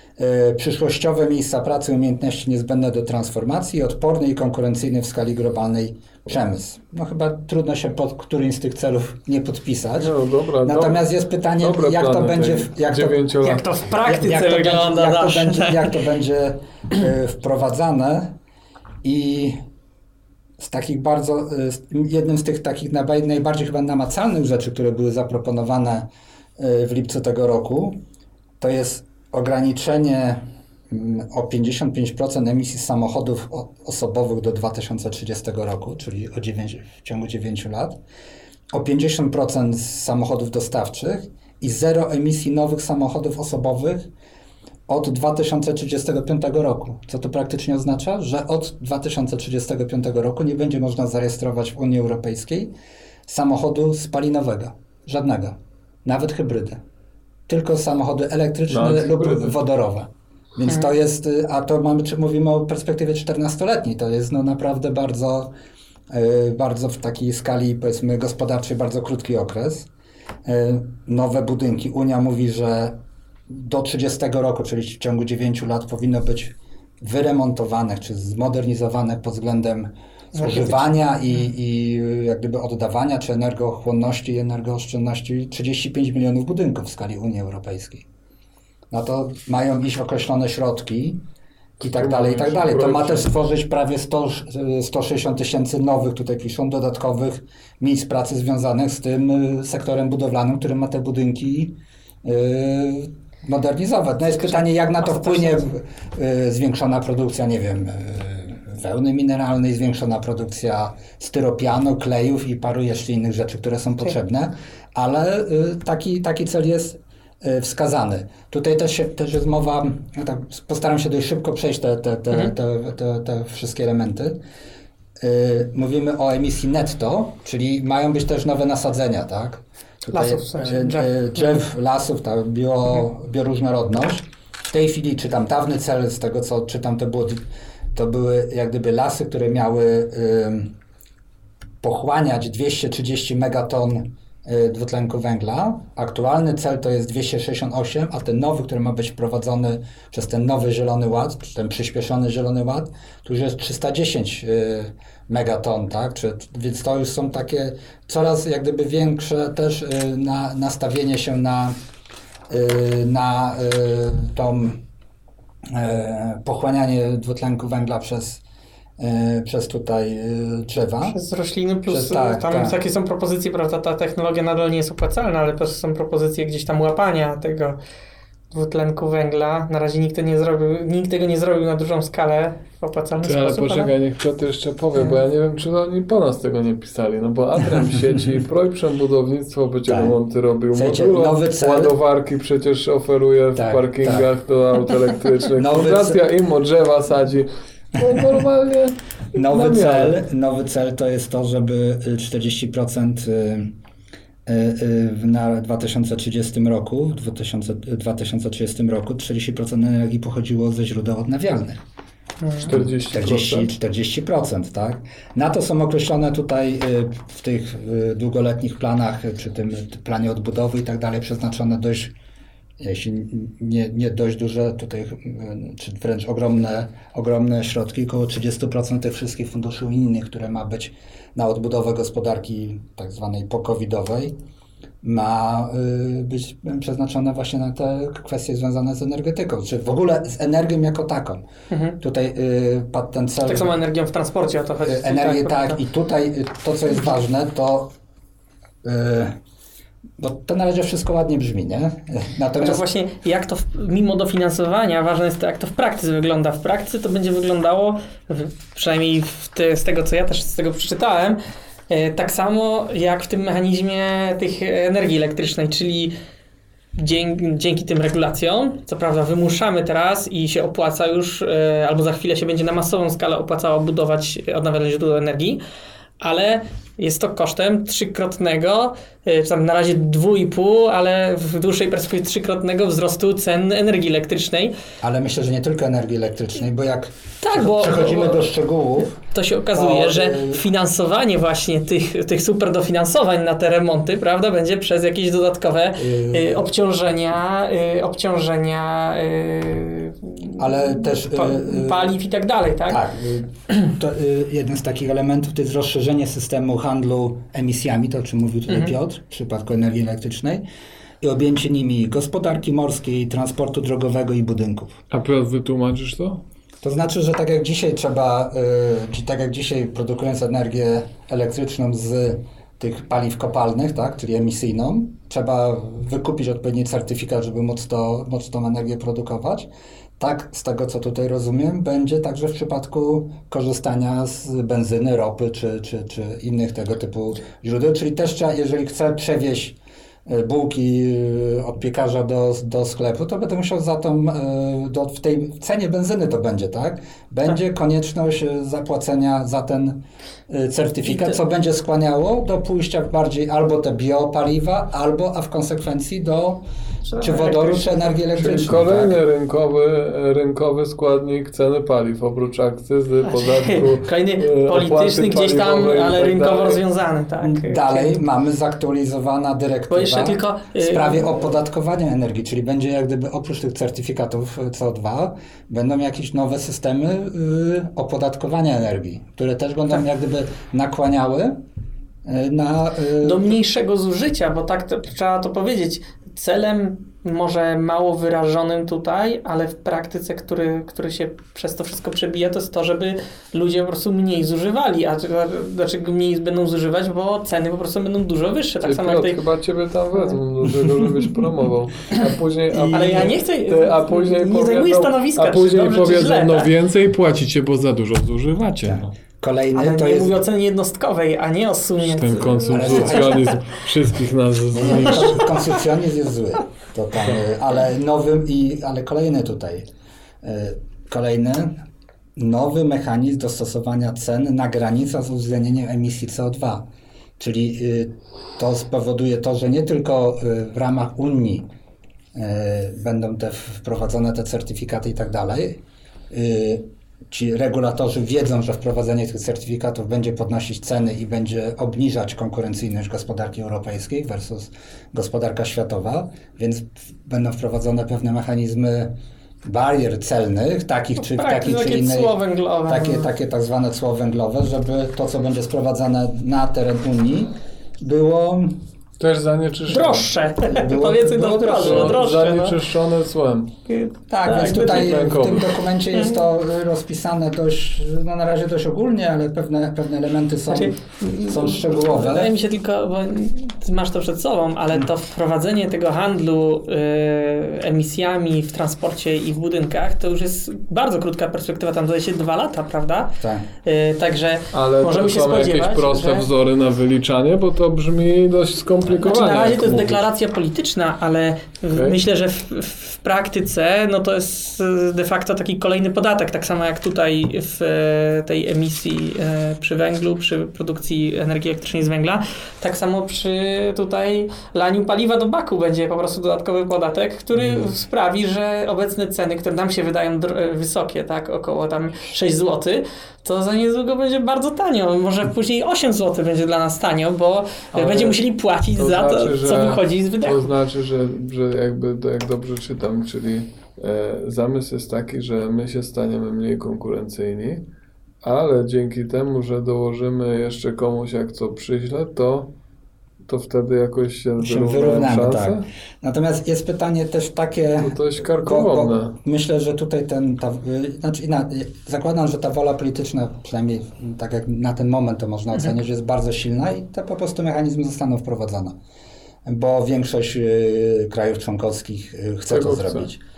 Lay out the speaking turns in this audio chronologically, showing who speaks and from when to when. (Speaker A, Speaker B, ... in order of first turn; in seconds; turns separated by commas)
Speaker A: 0.2-13.2, Speaker B: 10.0-11.1, Speaker B: 11.6-13.8, Speaker C: 13.4-16.0, Speaker A: 14.1-18.4, Speaker A: 19.0-19.6, Speaker A: 20.6-28.0, Speaker A: 28.6-38.0, Speaker A: 38.7-44.1, Speaker A: 44.9-52.7, Speaker A: 53.3-56.8, Speaker A: 57.5-65.5, Speaker B: 58.7-59.5, Speaker A: 66.1-69.9, Speaker A: 70.5-73.0, Speaker A: 73.5-88.1, Speaker C: 80.4-80.8, Speaker A: 88.9-91.2, Speaker B: 91.8-93.3, Speaker A: 91.8-124.4, Speaker C: 104.5-105.7, Speaker A: 125.2-140.7, Speaker C: 130.1-131.6, Speaker A: 141.8-161.8, Speaker A: 162.5-164.8, Speaker A: 165.7-168.4, Speaker A: 169.0-171.2, Speaker C: 171.1-177.8, Speaker A: 171.9-172.8, Speaker C: 178.5-183.9, Speaker B: 183.2-200.2, Speaker A: 189.9-190.2, Speaker A: 190.7-191.9, Speaker A: 193.6-194.3, Speaker A: 195.6-196.2, Speaker A: 199.4-203.8, Speaker A: 204.5-211.8, Speaker C: 212.4-212.7, Speaker B: 212.6-213.7, Speaker A: 212.6-222.1, Speaker A: 222.8-234.4, Speaker A: 235.0-241.4, Speaker C: 241.7-242.0, Speaker A: 242.0-243.8, Speaker C: 243.4-245.8, Speaker A: 244.8-247.9, Speaker A: 248.8-249.4, Speaker A: 250.2-252.8, Speaker C: 252.6-266.1, Speaker C: 267.0-275.6, Speaker C: 276.2-284.8, Speaker A: 285.0-289.2, Speaker C: 287.4-288.4, Speaker C: 289.3-303.0, Speaker A: 289.7-290.6, Speaker A: 296.0-296.6, Speaker A: 300.6-302.1, Speaker A: 302.9-310.6, Speaker A: 311.2-315.0, Speaker B: 315.1-316.4, Speaker A: 316.8-356.6, Speaker C: 351.1-351.4, Speaker C: 357.1-358.2, Speaker A: 357.2-359.2, Speaker B: 358.4-366.8, Speaker C: 363.2-368.2, Speaker A: 367.4-381.6, Speaker C: 369.9-371.3, Speaker A: 382.2-383.6, Speaker C: 383.2-399.4, Speaker B: 398.8-409.1, Speaker A: 402.7-403.3, Speaker C: 402.9-406.7, Speaker A: 408.8-410.4, Speaker C: 409.8-413.6, Speaker B: 412.0-415.4, Speaker A: 412.7-413.4, Speaker A: 414.7-419.9, Speaker C: 415.1-415.5, Speaker A: 420.4-421.8, Speaker A: 422.4-431.7, Speaker A: 432.3-452.4, Speaker C: 451.2-453.3, Speaker A: 452.9-458.8, Speaker B: 459.2-460.3, Speaker C: 459.9-462.8, Speaker A: 460.6-462.2, Speaker B: 461.8-463.7, Speaker C: 463.9-465.2, Speaker A: 464.3-472.5, Speaker B: 464.6-465.7, Speaker C: 466.1-466.4, Speaker C: 470.7-486.5, Speaker A: 483.4-483.7, Speaker B: 484.7-490.2, Speaker C: 489.1-520.7, Speaker B: 491.9-492.2, Speaker B: 507.6-507.9, Speaker B: 517.9-518.4, Speaker B: 519.0-527.9, Speaker B: 528.4-532.7, Speaker B: 533.5-535.9, Speaker A: 534.6-549.0, Speaker B: 538.0-539.4, Speaker A: 549.6-553.4, Speaker B: 552.7-553.3